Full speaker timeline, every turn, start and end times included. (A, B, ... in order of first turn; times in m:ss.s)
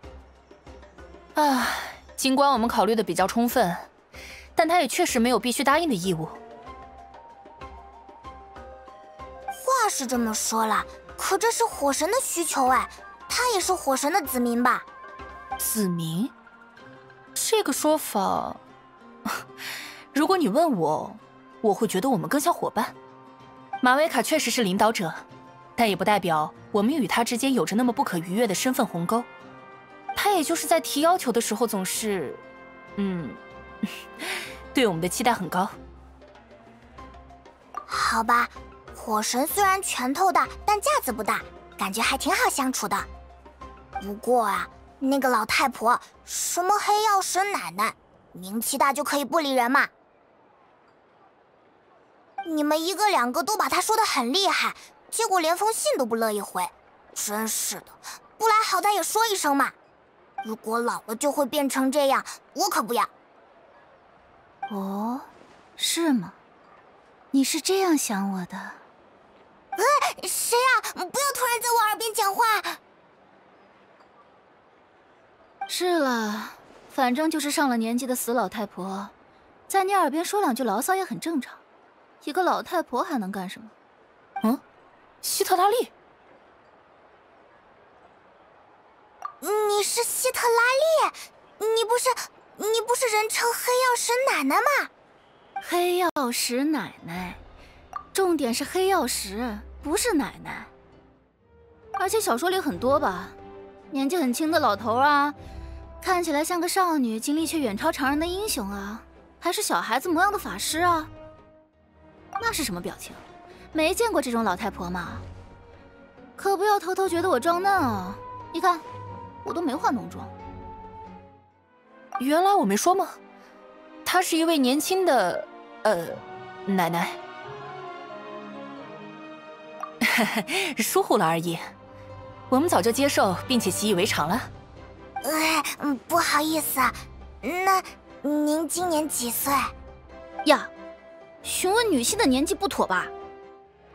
0:01.4-0:03.9 A
0:04.6-0:06.4 A
0:09.5-0:14.8 B
0:15.6-0:16.3 A
0:17.3-0:18.6 A
0:19.2-0:22.9 A
0:23.8-0:25.2 A
0:25.8-0:29.3 A
0:30.1-0:32.4 A
0:33.0-0:35.7 A
0:37.9-0:43.1 B
0:44.0-0:49.9 B
0:52.4-0:59.7 B
1:00.4-1:03.1 B
1:04.7-1:06.3 C
1:07.3-1:08.8 C
1:09.8-1:12.8 B
1:15.7-1:19.1 C
1:19.7-1:21.6 C
1:22.2-1:23.7 C
1:25.2-1:25.9 A
1:29.4-1:34.9 B
1:35.6-1:37.4 C
1:38.1-1:40.7 C
1:42.0-1:43.4 C
1:43.9-1:45.4 C
1:46.0-1:51.1 C
1:52.4-1:53.2 C
1:53.7-1:55.2 C
1:56.4-1:58.8 C
1:59.4-2:00.3 C
2:02.2-2:03.2 A
2:04.0-2:07.2 A
2:10.0-2:11.7 A
2:12.5-2:14.5 A
2:15.2-2:19.7 B
2:20.4-2:20.7 C
2:21.4-2:23.1 C